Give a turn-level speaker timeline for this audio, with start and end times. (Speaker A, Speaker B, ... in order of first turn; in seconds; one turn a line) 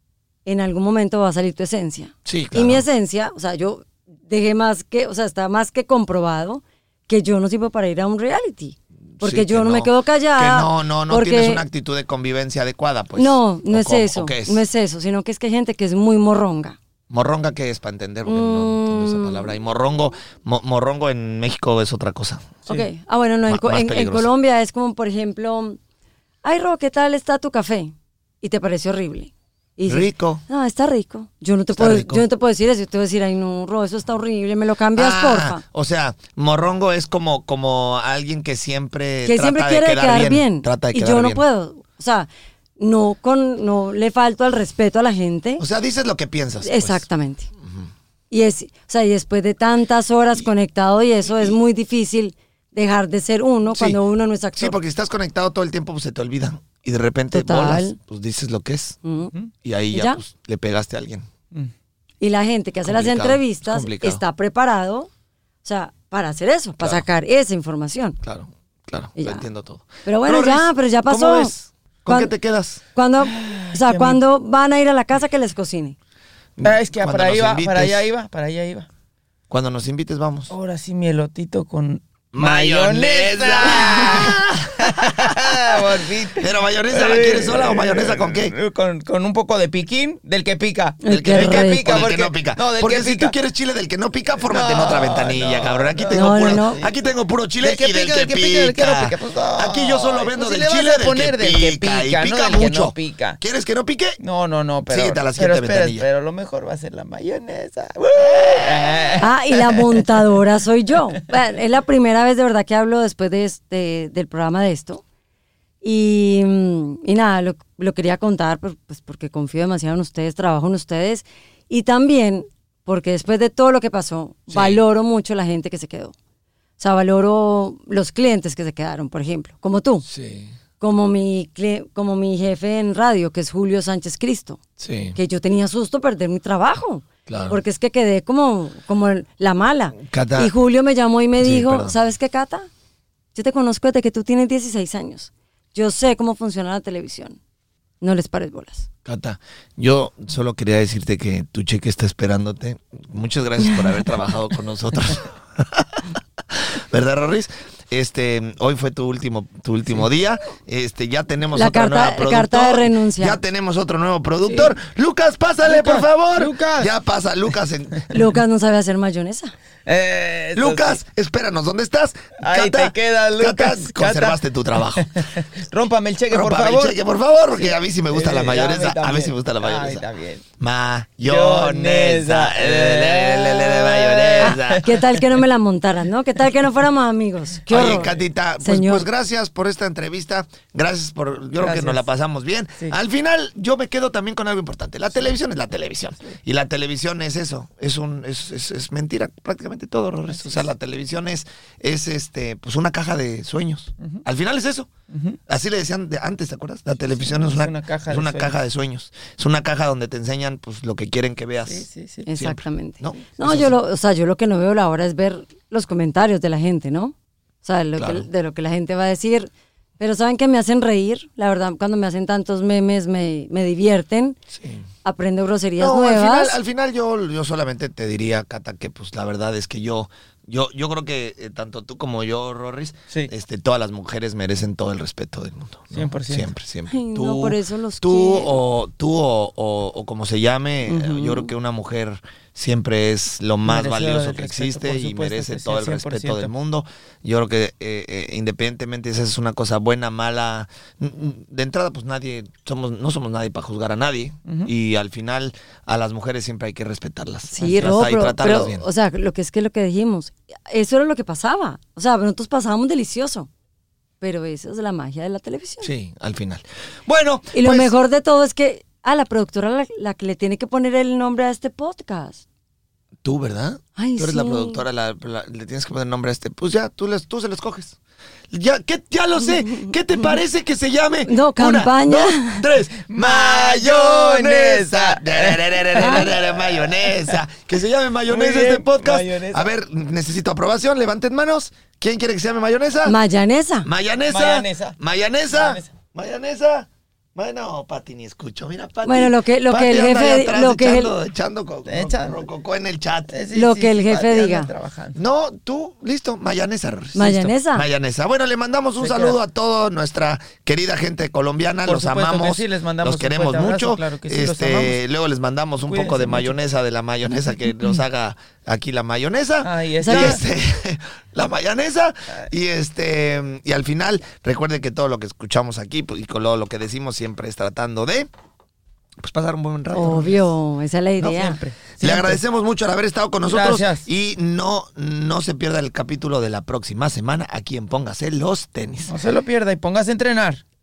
Speaker A: 0.5-11.6
Speaker B: 2.3-2.9
Speaker B: 9.2-14.6
Speaker A: 13.2-16.8
Speaker B: 17.1-22.6
Speaker A: 18.3-19.5
Speaker A: 22.7-25.8
Speaker B: 23.5-24.3
Speaker A: 26.4-35.6
Speaker B: 29.9-30.4
Speaker B: 31.7-32.2
Speaker B: 35.0-41.4
Speaker A: 39.2-42.3
Speaker A: 42.8-45.6
Speaker B: 45.6-47.0
Speaker A: 46.6-47.5
Speaker B: 47.6-47.9
Speaker A: 48.3-54.8
Speaker B: 53.7-54.0
Speaker B: 54.6-59.0
Speaker A: 57.3-58.0
Speaker A: 59.0-59.3
Speaker B: 59.6-61.3
Speaker A: 59.9-60.2
Speaker A: 62.2-65.1
Speaker B: 62.9-64.2
Speaker A: 65.6-68.2
Speaker B: 68.2-72.8
Speaker A: 69.2-69.5
Speaker A: 70.0-71.5
Speaker A: 72.1-72.3
Speaker A: 73.0-76.0
Speaker C: 73.2-74.2
Speaker B: 76.6-78.1
Speaker C: 76.6-78.9
Speaker B: 79.5-80.5
Speaker C: 80.5-93.3
Speaker B: 82.3-88.5
Speaker A: 91.0-92.0
Speaker B: 91.1-104.2
Speaker C: 94.5-97.0
Speaker A: 96.2-96.8
Speaker C: 97.6-103.4
Speaker C: 104.2-110.3
Speaker B: 104.9-106.1
Speaker B: 108.3-109.0
Speaker A: 109.2-115.0
Speaker A: 115.8-126.2
Speaker B: 124.5-124.8
Speaker A: 126.8-130.1
Speaker B: 130.1-130.6
Speaker A: 130.8-134.6
Speaker B: 134.8-135.2
Speaker A: 135.2-142.7
Speaker B: 137.3-137.6
Speaker B: 140.0-140.5
Speaker B: 141.4-141.9
Speaker A: 143.3-147.4
Speaker A: 148.0-148.9
Speaker B: 149.1-168.1
Speaker A: 161.5-163.4
Speaker C: 164.5-164.8
Speaker C: 165.7-166.9
Speaker A: 168.1-169.5
Speaker C: 169.9-171.0
Speaker B: 170.6-175.1
Speaker C: 172.4-177.0
Speaker B: 176.3-180.1
Speaker C: 177.6-180.4
Speaker B: 180.6-185.0
Speaker C: 181.2-185.4
Speaker A: 184.4-189.1
Speaker B: 187.7-204.9
Speaker C: 187.8-188.2
Speaker C: 191.6-192.1
Speaker C: 200.3-200.7
Speaker C: 205.1-205.4
Speaker B: 205.5-213.8
Speaker C: 207.2-208.6
Speaker C: 211.7-212.3
Speaker A: 212.3-224.4
Speaker B: 218.0-218.3
Speaker B: 224.5-224.8
Speaker A: 225.0-226.6
Speaker B: 225.8-258.9
Speaker C: 235.9-236.5
Speaker A: 236.9-238.6
Speaker A: 240.9-241.5
Speaker C: 243.7-246.5
Speaker C: 254.5-254.7
Speaker A: 257.5-263.5
Speaker C: 257.6-257.9
Speaker A: 264.2-265.9
Speaker B: 265.8-267.9
Speaker A: 267.5-272.4
Speaker B: 273.2-278.0
Speaker A: 274.0-274.9
Speaker B: 278.5-293.2
Speaker A: 279.4-280.4
Speaker A: 281.3-282.7
Speaker C: 283.1-287.4
Speaker C: 288.3-289.7
Speaker A: 293.1-293.9
Speaker B: 293.8-303.4
Speaker C: 294.3-295.0
Speaker C: 295.5-295.9
Speaker A: 299.1-301.1
Speaker C: 301.9-302.4
Speaker C: 303.3-305.2
Speaker A: 303.5-304.7
Speaker B: 305.1-328.3
Speaker A: 307.1-307.9
Speaker C: 309.0-309.4
Speaker C: 311.9-315.0
Speaker C: 315.9-316.6
Speaker C: 319.6-320.4
Speaker A: 320.0-320.4
Speaker B: 329.2-330.4
Speaker A: 329.9-331.6
Speaker C: 330.0-330.4
Speaker C: 331.2-332.4
Speaker B: 332.0-339.1
Speaker C: 333.5-334.1
Speaker C: 339.1-340.6